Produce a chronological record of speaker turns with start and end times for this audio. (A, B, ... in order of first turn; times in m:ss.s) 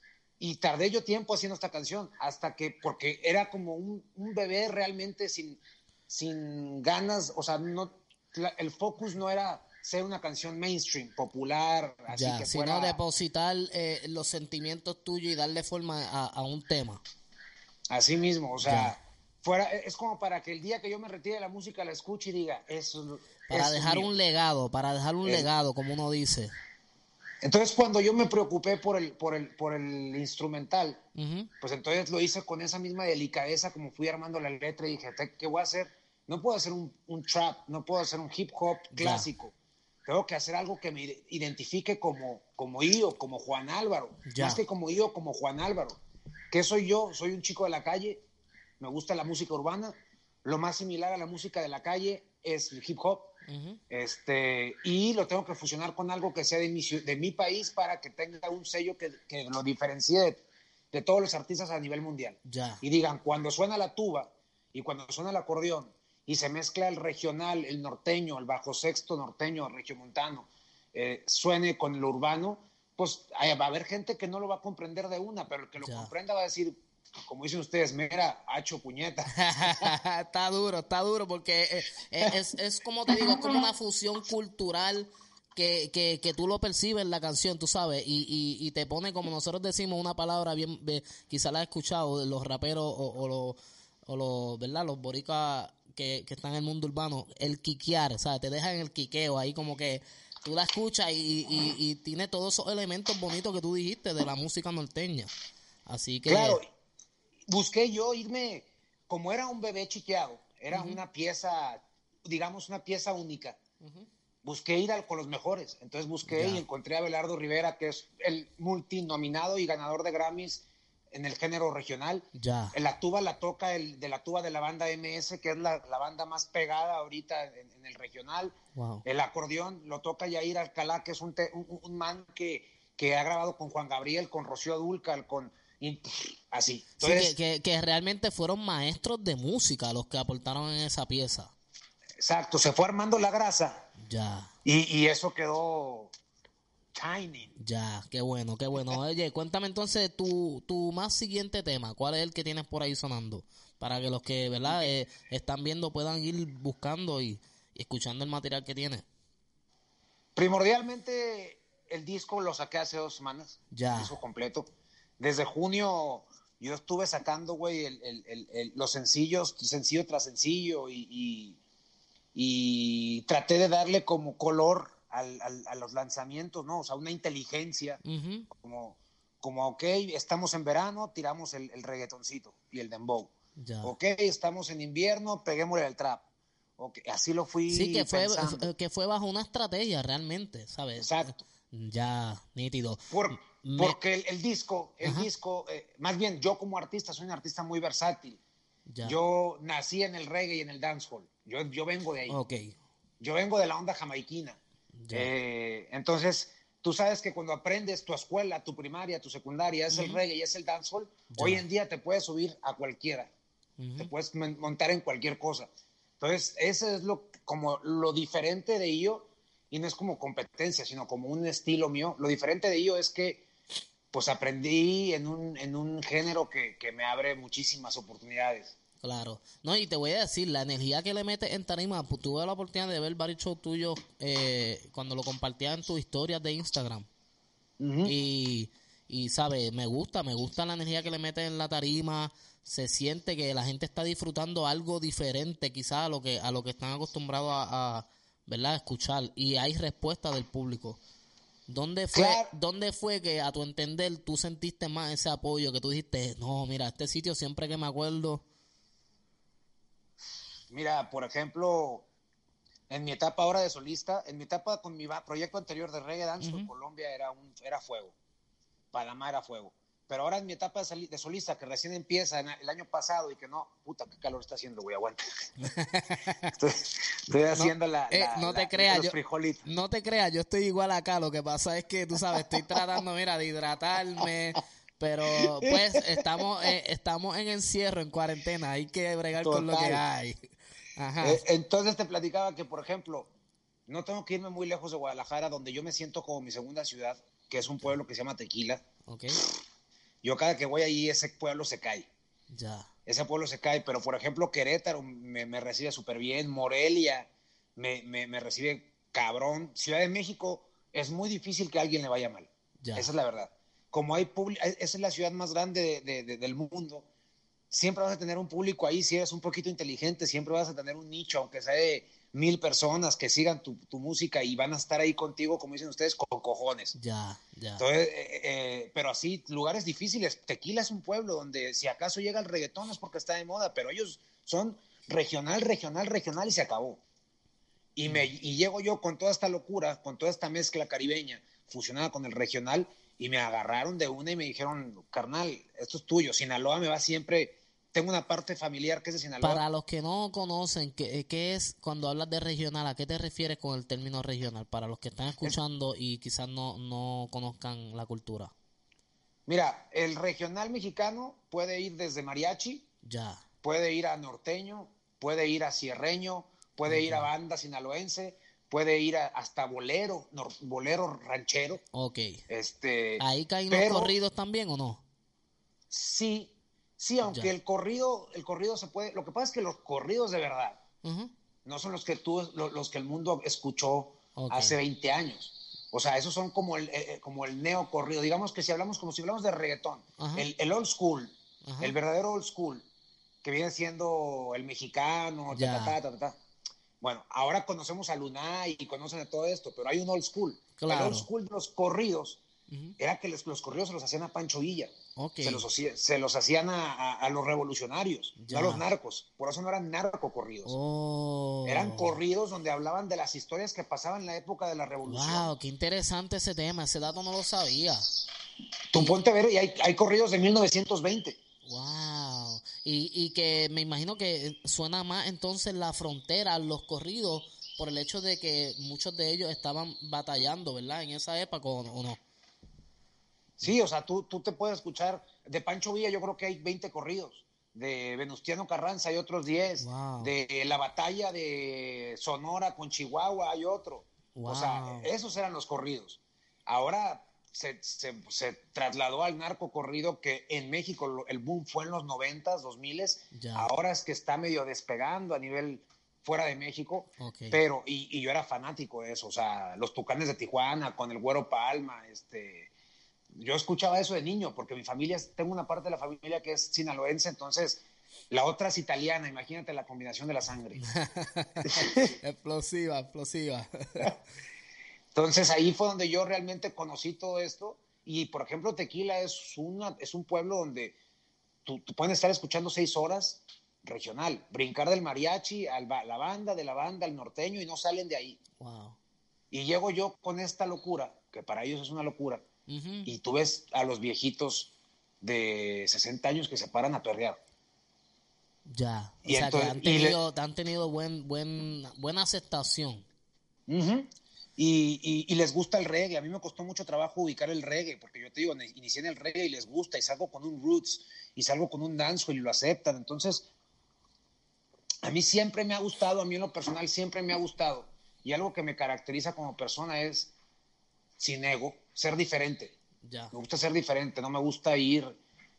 0:00.4-0:13.0 A
0:12.1-0:17.0 B
0:17.9-0:24.1 A
0:18.6-0:18.9 B
0:23.5-0:26.5 B
0:25.2-0:25.5 A
0:27.4-0:31.0 A
0:31.2-0:31.5 B
0:31.6-0:39.5 A
0:38.9-0:39.3 B
0:40.1-0:46.0 A
0:44.3-0:44.6 B
0:46.5-0:48.2 A
0:48.8-0:53.3 A
0:53.5-0:53.8 B
0:53.9-1:00.4 A
1:00.9-1:16.7 A
1:02.5-1:02.8 B
1:15.8-1:16.1 B
1:17.3-1:19.9 A
1:19.4-1:45.3 B
1:23.1-1:23.6 A
1:45.9-1:46.6 B
1:46.3-1:46.7 A
1:47.5-1:53.6 A
1:50.7-1:51.0 B
1:53.8-1:54.1 B
1:54.4-2:17.4 A
1:56.3-1:56.6 B
2:02.4-2:02.8 B
2:08.8-2:09.0 B
2:17.0-2:21.5 B
2:22.2-2:23.8 A
2:24.0-2:24.5 B
2:24.6-2:26.1 A
2:26.9-2:27.5 A
2:27.6-2:39.0 B
2:34.6-2:34.9 A
2:40.4-2:44.7 A
2:43.7-2:44.1 B
2:45.2-2:51.6 A
2:52.4-2:58.0 A
2:58.0-2:58.5 B
2:58.6-3:06.2 A
3:03.6-3:03.9 B
3:06.8-3:08.7 A
3:07.7-3:14.0 B
3:11.0-3:11.4 A
3:13.1-3:18.4 A
3:18.9-3:19.2 B
3:19.0-3:22.4 A
3:22.3-3:22.8 B
3:23.2-3:24.6 A
3:25.0-3:25.3 B
3:25.1-3:33.3 A
3:29.9-3:30.2 B
3:31.3-3:31.6 B
3:33.8-3:34.1 B
3:34.0-3:35.7 A
3:36.2-3:43.5 A
3:44.1-3:48.8 A
3:49.0-3:57.1 B
3:57.8-3:58.1 A
3:58.0-4:11.0 B
4:11.7-4:18.4 B
4:12.1-4:12.5 A
4:20.7-4:22.1 A
4:22.9-4:28.2 A
4:26.4-4:26.7 B
4:28.9-4:35.2 A
4:35.6-4:36.5 B
4:36.5-4:39.7 A
4:37.5-4:50.4 B
4:45.4-4:46.2 A
4:49.4-4:50.1 A
4:51.0-4:51.4 B
4:51.2-4:53.3 A
4:53.9-4:58.8 A
4:57.6-4:57.9 B
4:59.1-4:59.4 B
5:00.2-5:02.1 A
5:02.5-5:02.9 B
5:03.1-5:17.1 A
5:12.8-5:13.1 B
5:17.7-5:27.0 A
5:27.0-5:27.8 B
5:27.8-5:37.0 A
5:38.0-5:49.6 A
5:49.4-5:58.5 B
5:59.5-6:02.9 A
6:03.0-6:03.4 B
6:03.6-6:11.8 A
6:06.9-6:07.3 B
6:11.9-6:12.4 B
6:12.5-6:14.2 A
6:13.2-6:15.0 B
6:15.9-6:20.8 A
6:17.2-6:17.5 B
6:21.0-6:21.3 B
6:21.7-6:32.8 A
6:24.4-6:24.8 B
6:30.2-6:30.5 B
6:31.7-6:32.0 B
6:33.4-6:36.4 A
6:35.5-6:36.0 B
6:37.0-6:42.4 A
6:40.8-6:41.3 B
6:42.7-6:43.0 B
6:43.0-6:44.9 A
6:45.2-6:45.6 B
6:45.4-6:50.8 A
6:48.4-6:48.9 B
6:50.6-6:52.2 B
6:51.7-6:55.5 A
6:55.1-6:58.1 B
6:58.9-7:01.4 A
7:01.6-7:12.2 B
7:13.6-7:42.7 A
7:19.8-7:20.3 B
7:24.3-7:25.1 B
7:33.3-7:33.7 B
7:37.2-7:37.6 B
7:43.4-7:50.8 A
7:50.8-7:54.2 B
7:51.7-7:52.1 A
7:55.1-8:01.0 A
8:01.6-8:08.4 A
8:08.6-8:09.0 B
8:09.5-8:12.4 A
8:12.7-8:13.1 B
8:13.0-8:17.4 A
8:18.7-8:23.1 B
8:19.3-8:20.2 A
8:23.7-8:33.5 A
8:35.0-8:40.3 A
8:41.2-8:42.8 A
8:43.0-8:43.3 B
8:43.3-8:45.2 A